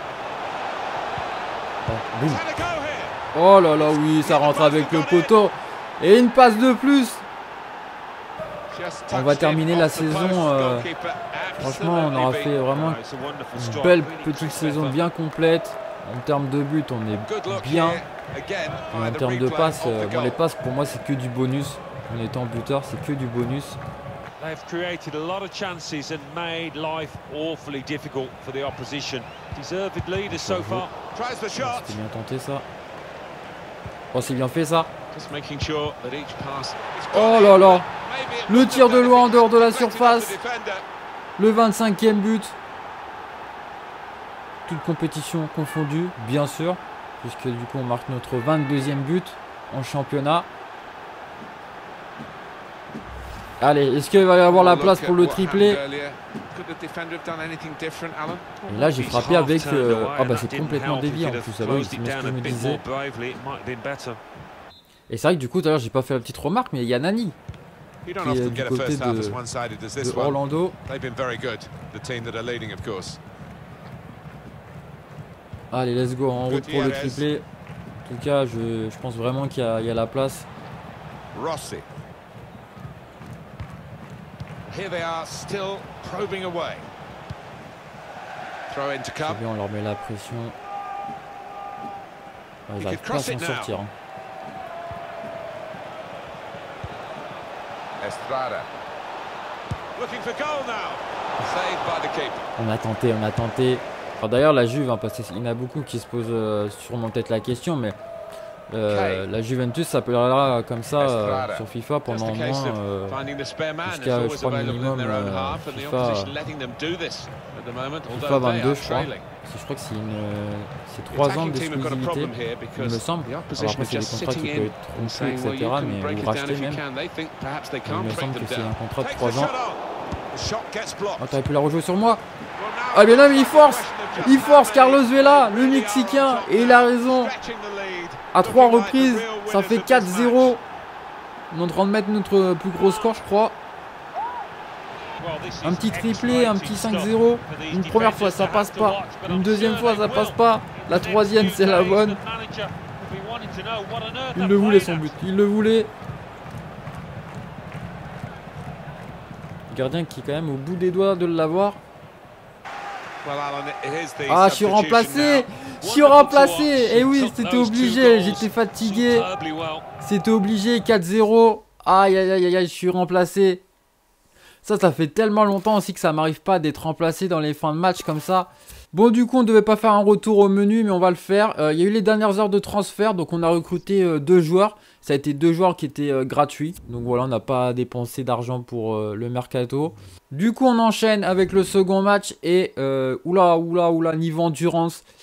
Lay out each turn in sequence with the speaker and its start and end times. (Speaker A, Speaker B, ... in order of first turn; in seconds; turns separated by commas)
Speaker A: 1.9-2.4, Speaker B: 2.2-3.2, Speaker A: 3.3-7.2, Speaker B: 4.2-5.3, Speaker B: 8.7-12.6, Speaker A: 9.1-10.9, Speaker A: 11.6-13.0, Speaker C: 12.6-15.0, Speaker A: 13.6-18.0, Speaker B: 17.2-20.4, Speaker A: 18.9-23.8, Speaker C: 24.4-31.0, Speaker A: 30.3-30.9, Speaker B: 31.1-32.0, Speaker A: 31.6-32.7, Speaker A: 34.1-34.9, Speaker B: 35.1-40.8, Speaker A: 37.1-37.9, Speaker A: 38.5-40.4, Speaker A: 41.4-42.6, Speaker A: 44.7-50.5, Speaker A: 53.6-55.8, Speaker B: 54.5-58.6, Speaker A: 58.7-62.8, Speaker C: 58.7-64.2, Speaker A: 65.1-67.4, Speaker B: 68.0-73.2, Speaker A: 68.2-69.4, Speaker A: 70.0-70.8, Speaker A: 75.7-77.4, Speaker B: 76.5-77.2, Speaker A: 78.0-80.5, Speaker B: 81.3-81.9, Speaker B: 84.7-86.9, Speaker B: 88.7-89.4, Speaker A: 89.2-90.5, Speaker A: 92.7-93.9, Speaker B: 92.8-93.8, Speaker B: 98.0-98.7, Speaker B: 100.0-102.5, Speaker A: 102.6-108.0, Speaker A: 108.7-113.2, Speaker B: 108.9-109.3, Speaker B: 111.0-119.3, Speaker A: 113.8-116.3, Speaker A: 118.1-126.8, Speaker B: 121.1-131.4, Speaker A: 127.8-129.5, Speaker A: 131.2-132.2, Speaker B: 132.6-140.6, Speaker A: 132.9-137.3, Speaker A: 138.3-140.6, Speaker A: 141.5-143.6, Speaker C: 142.8-143.2, Speaker C: 145.2-155.1, Speaker A: 145.6-152.2, Speaker A: 154.3-155.9, Speaker A: 159.7-161.8, Speaker B: 163.2-165.5, Speaker A: 164.3-169.3, Speaker C: 165.8-169.9, Speaker A: 170.0-173.6, Speaker A: 174.6-195.0